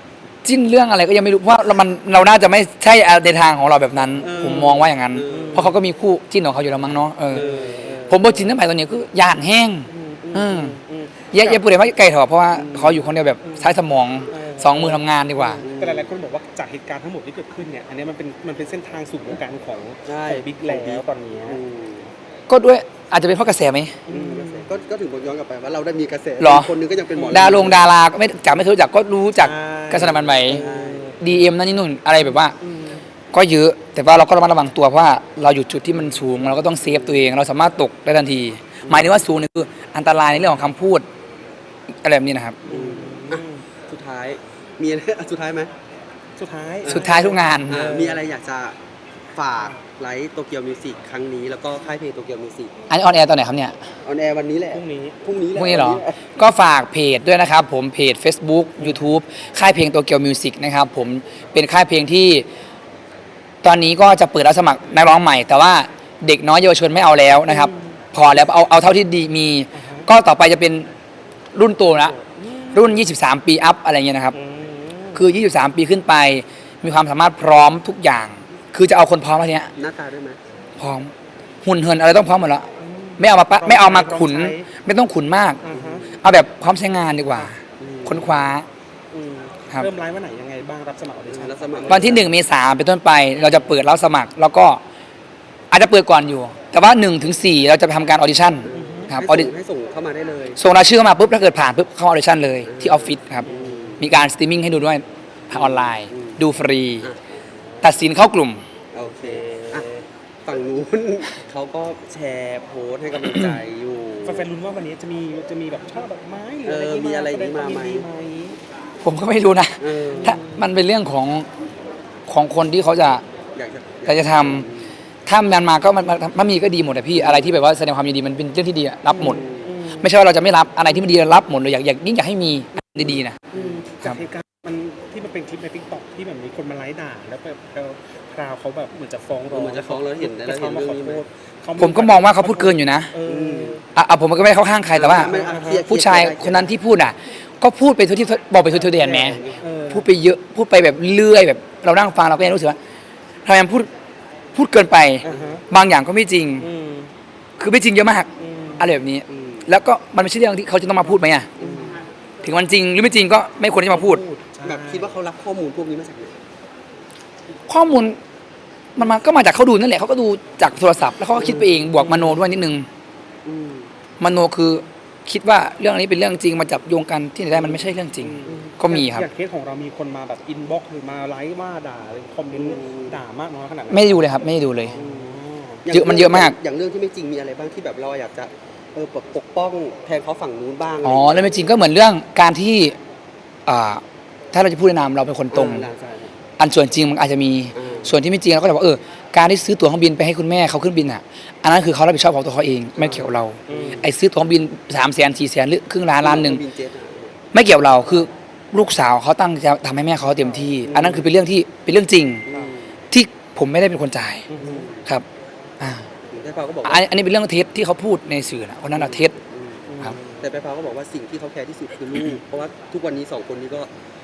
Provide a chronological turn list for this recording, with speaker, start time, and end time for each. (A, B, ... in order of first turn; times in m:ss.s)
0:00.4-0:07.5 A
0:04.2-0:05.7 B
0:04.2-0:05.7 C
0:07.3-0:08.4 C
0:07.3-0:08.1 B
0:08.1-0:10.8 A
0:09.9-0:11.6 C
0:11.3-0:15.6 A
0:12.5-0:13.1 B
0:13.4-0:13.8 C
0:14.3-0:21.6 C
0:15.6-0:16.1 B
0:20.0-0:22.1 B
0:22.5-0:23.9 A
0:24.1-0:24.7 C
0:24.1-0:27.9 B
0:26.4-0:26.7 A
0:27.1-0:27.8 C
0:27.3-0:30.6 A
0:29.4-0:31.4 C
0:30.4-0:31.1 B
0:31.2-0:32.5 A
0:32.6-0:33.0 C
0:33.3-0:41.0 A
0:36.9-0:37.3 B
0:38.8-0:39.1 B
0:42.0-0:42.6 A
0:42.6-0:45.7 B
0:42.7-0:43.6 C
0:46.4-0:48.2 C
0:46.8-0:47.8 A
0:47.7-0:48.8 B
0:49.3-0:52.7 B
0:52.9-0:53.8 A
0:54.0-0:56.2 B
0:54.7-0:55.2 C
0:55.5-1:02.4 A
1:03.6-1:10.9 A
1:07.5-1:07.8 C
1:09.7-1:10.1 C
1:11.5-1:12.1 A
1:12.0-1:13.0 C
1:12.7-1:14.4 A
1:14.3-1:15.3 C
1:15.1-1:19.7 A
1:19.8-1:20.4 B
1:20.8-1:21.1 A
1:21.6-1:22.6 A
1:22.8-1:24.7 C
1:23.2-1:25.6 A
1:25.6-1:26.2 C
1:25.7-1:26.2 B
1:26.2-1:27.5 A
1:27.8-1:28.5 B
1:28.0-1:28.6 A
1:29.1-1:32.2 C
1:31.3-1:32.3 B
1:31.9-1:34.8 A
1:35.7-1:39.5 A
1:38.6-1:40.6 B
1:38.7-1:39.2 C
1:40.6-1:43.5 A
1:42.7-1:44.1 B
1:43.5-1:43.8 C
1:44.0-1:47.1 A
1:45.5-1:46.4 B
1:47.0-1:47.4 B
1:47.8-1:48.6 A
1:48.9-1:49.9 B
1:49.2-1:50.0 C
1:50.4-1:54.5 B
1:54.2-1:58.6 C
1:56.6-1:58.0 B
1:59.0-2:01.4 A
1:59.8-2:00.4 B
2:00.2-2:00.6 C
2:02.3-2:03.2 A
2:03.6-2:04.9 B
2:04.0-2:04.7 A
2:05.2-2:09.4 A
2:07.2-2:07.5 B
2:09.1-2:09.7 B
2:09.2-2:10.1 C
2:10.0-2:13.4 A
2:13.5-2:23.8 C
2:13.5-2:13.8 B
2:19.5-2:21.2 B
2:21.8-2:23.1 A
2:23.2-2:23.8 B
2:23.9-2:32.8 A
2:24.9-2:26.7 B
2:25.1-2:25.9 C
2:29.0-2:29.6 B
2:29.6-2:30.0 C
2:33.4-2:33.9 A
2:34.5-2:36.7 A
2:35.2-2:35.6 C
2:35.3-2:35.6 B
2:36.6-2:37.1 C
2:37.6-2:41.5 A
2:38.4-2:38.9 C
2:39.3-2:39.7 B
2:41.6-2:42.0 B
2:42.4-2:44.2 A
2:43.9-2:45.1 C
2:44.6-2:46.4 B
2:47.7-2:48.2 A
2:48.9-2:52.9 A
2:51.4-2:52.2 B
2:51.6-2:52.3 C
2:53.4-2:53.9 B
2:54.2-2:59.3 A
2:58.2-3:05.8 C
2:58.4-2:58.7 B
3:02.5-3:03.2 B
3:03.9-3:05.0 A
3:04.9-3:11.6 B
3:05.9-3:06.6 A
3:11.0-3:13.0 A
3:13.6-3:14.0 A
3:14.5-3:15.9 A
3:15.5-3:16.3 B
3:16.6-3:26.6 A
3:17.7-3:18.2 B
3:23.0-3:24.0 B
3:23.7-3:24.0 C
3:26.2-3:27.3 B
3:27.5-3:32.4 A
3:30.9-3:31.3 B
3:32.5-3:32.9 B
3:33.1-3:34.4 A
3:34.5-3:34.9 C
3:34.6-3:35.0 B
3:35.8-3:36.0 A
3:36.3-3:37.0 B
3:36.8-3:39.3 A
3:39.0-3:43.9 B
3:39.9-3:40.2 C